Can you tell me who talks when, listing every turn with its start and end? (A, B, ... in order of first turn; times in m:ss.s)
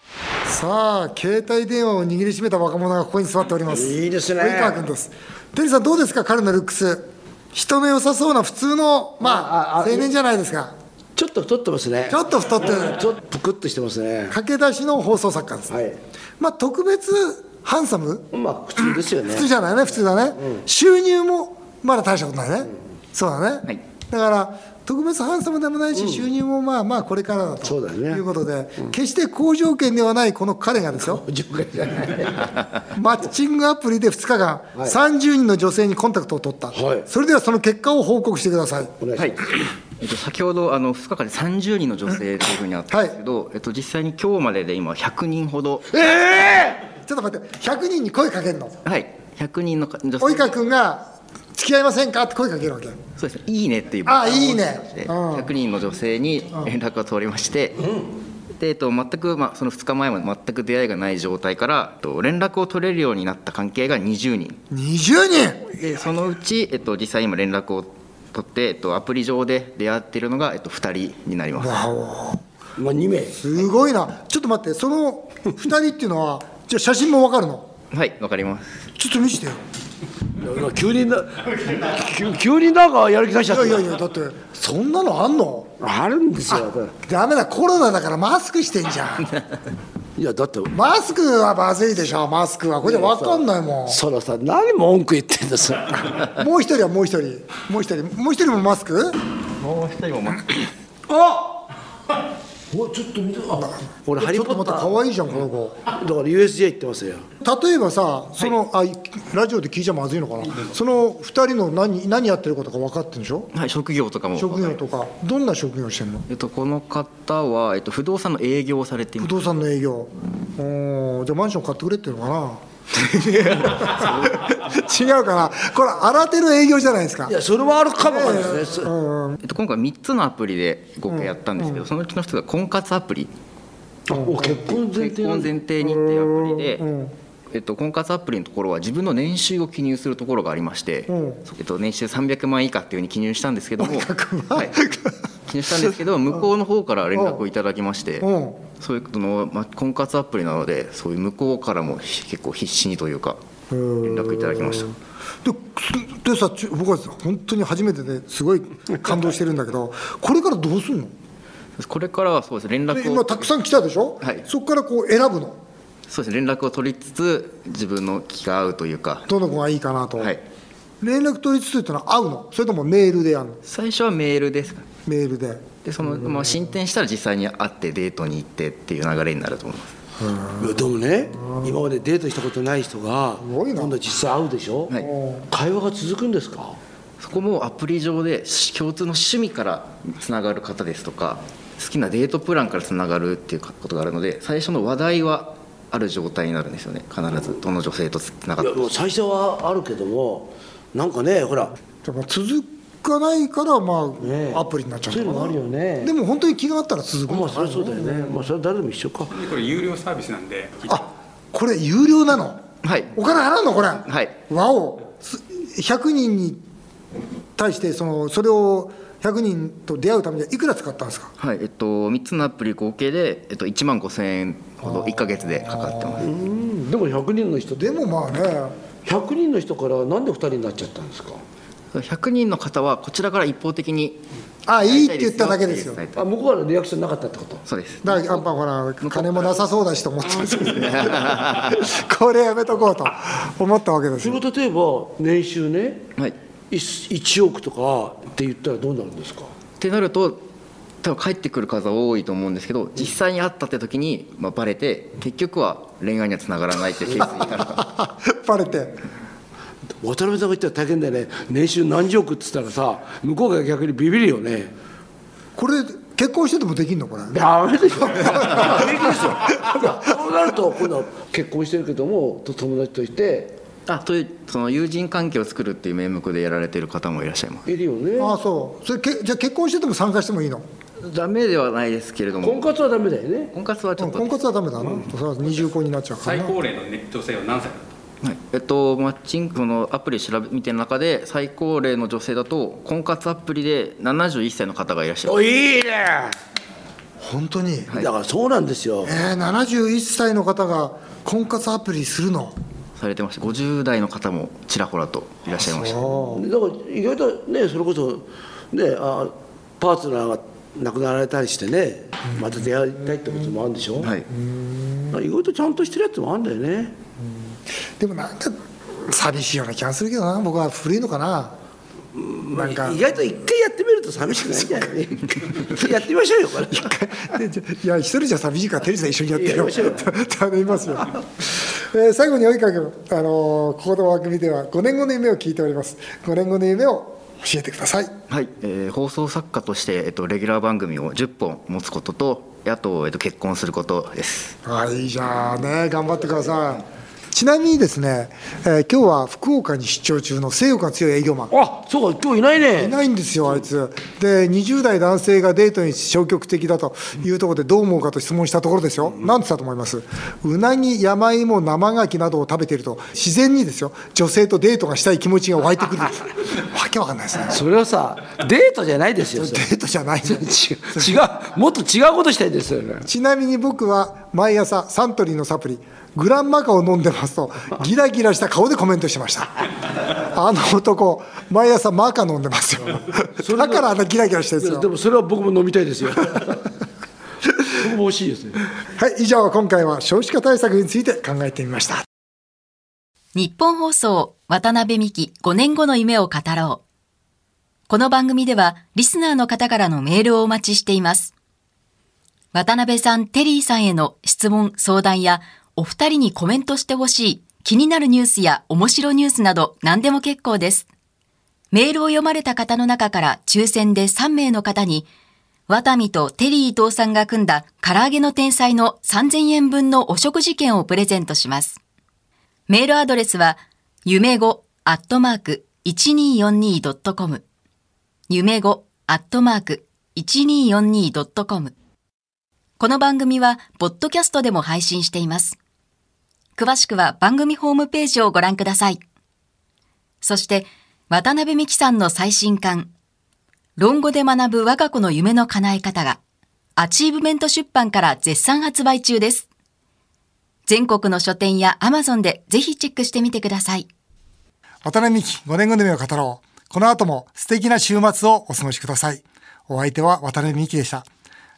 0:00.4-0:10.7 A
0:03.7-0:04.8 B
0:09.2-0:10.1 B
0:11.2-0:14.4 B
0:12.1-0:13.0 A
0:14.3-0:15.7 A
0:15.7-0:16.0 B
0:16.4-0:18.3 A
0:18.3-0:19.5 B
0:19.3-0:31.2 A
0:25.9-0:26.2 B
0:27.6-0:28.2 B
0:31.0-0:32.5 B
0:32.9-0:38.9 A
0:36.7-0:37.1 B
0:39.0-0:39.4 B
0:39.2-0:39.4 C
0:40.0-0:45.9 C
0:45.9-0:46.8 B
0:47.0-0:48.8 A
0:48.8-0:50.5 C
0:50.2-0:53.0 A
0:53.2-0:57.9 C
0:54.0-0:55.5 A
0:58.5-1:04.6 C
1:04.7-1:05.7 A
1:05.7-1:11.8 C
1:11.6-1:12.4 A
1:12.8-1:13.4 B
1:13.4-1:17.7 A
1:17.9-1:18.8 C
1:19.0-1:19.6 A
1:20.4-1:23.9 B
1:23.5-1:25.7 A
1:25.8-1:26.9 B
1:26.5-1:29.4 A
1:30.2-1:30.7 B
1:30.7-1:34.0 A
1:32.8-1:36.3 B
1:36.2-1:39.2 A
1:39.6-1:40.7 C
1:41.1-1:41.6 B
1:42.7-1:45.0 B
1:43.5-1:45.8 A
1:45.9-1:47.3 B
1:47.4-1:53.5 A
1:53.5-1:54.8 C
1:54.4-1:56.3 A
1:56.3-1:59.3 C
1:59.2-2:02.6 A
2:02.9-2:04.3 C
2:03.4-2:07.3 A
2:07.3-2:08.9 B
2:08.0-2:09.4 A
2:09.4-2:13.3 C
2:11.1-2:11.8 A
2:14.1-2:15.5 B
2:14.1-2:14.7 A
2:14.7-2:16.8 C
2:15.8-2:17.1 A
2:17.5-2:24.8 C
2:21.1-2:21.4 A
2:23.8-2:25.1 A
2:25.5-2:33.4 C
2:27.1-2:27.4 A
2:28.2-2:28.6 A
2:33.7-2:41.1 A
2:34.0-2:34.9 C
2:41.8-2:43.5 C
2:42.9-2:45.6 A
2:46.1-2:49.3 C
2:49.3-2:50.4 A
2:51.0-2:53.6 A
2:53.6-2:54.9 C
2:55.0-2:55.7 A
2:55.8-3:00.0 C
3:00.2-3:00.8 A
3:00.6-3:04.9 B
3:03.4-3:03.9 A
3:05.0-3:05.4 A
3:05.5-3:06.8 B
3:07.2-3:19.0 C
3:18.6-3:21.8 B
3:22.0-3:28.4 A
3:24.2-3:26.1 B
3:27.3-3:29.3 B
3:29.3-3:31.0 D
3:30.9-3:32.6 A
3:32.8-3:33.1 C
3:33.1-3:36.6 A
3:34.0-3:34.3 C
3:37.6-3:41.3 A
3:41.4-3:46.3 C
3:45.7-3:46.3 A
3:46.2-3:48.0 B
3:47.7-3:48.7 A
3:49.0-3:51.4 B
3:51.9-3:54.2 C
3:54.6-3:56.0 A
3:54.8-3:56.2 C
3:56.1-3:57.6 B
3:57.6-3:58.4 C
3:58.0-4:04.4 A
3:59.0-3:59.6 C
4:00.6-4:01.9 C
4:04.2-4:06.1 B
4:06.7-4:09.5 B
4:09.8-4:10.4 C
4:11.0-4:17.8 C
4:17.4-4:19.0 A
4:20.0-4:24.7 B
4:25.6-4:27.4 A
4:27.3-4:33.6 B
4:28.1-4:30.0 A
4:33.9-4:37.6 C
4:37.7-4:38.4 B
4:38.2-4:40.6 A
4:41.0-4:42.7 C
4:42.4-4:43.5 B
4:43.5-4:44.4 C
4:44.0-4:46.6 A
4:46.2-4:47.9 D
4:48.2-4:55.5 C
4:55.2-4:56.4 B
4:57.2-4:57.9 A
4:58.0-4:59.1 B
4:59.0-5:02.6 A
5:03.0-5:06.1 C
5:05.6-5:06.4 A
5:06.3-5:14.1 B
5:14.0-5:14.3 C
5:14.3-5:15.2 A
5:15.1-5:17.0 B
5:18.0-5:21.6 A
5:22.1-5:26.9 B
5:22.5-5:23.0 A
5:26.7-5:38.1 A
5:29.3-5:30.1 B
5:38.3-5:44.6 C
5:44.6-5:51.5 A
5:51.5-5:53.0 B
5:52.8-6:07.6 A
6:07.5-6:09.6 B
6:09.4-6:11.2 A
6:10.2-6:13.1 B
6:13.0-6:19.6 A
6:20.1-6:24.9 A
6:23.4-6:23.9 B
6:24.6-6:26.7 B
6:27.8-6:28.6 B
6:29.0-6:32.0 A
6:33.3-6:36.8 E
6:37.9-6:41.3 E
6:42.5-6:50.9 E
6:51.7-6:55.0 E
6:55.7-7:01.8 E
7:02.7-7:07.4 E
7:08.3-7:11.7 E
7:12.8-7:15.6 E
7:16.6-7:19.0 E
7:20.2-7:22.9 E
7:23.8-7:26.2 E
7:26.8-7:29.4 E
7:30.7-7:33.9 E
7:34.8-7:41.0 A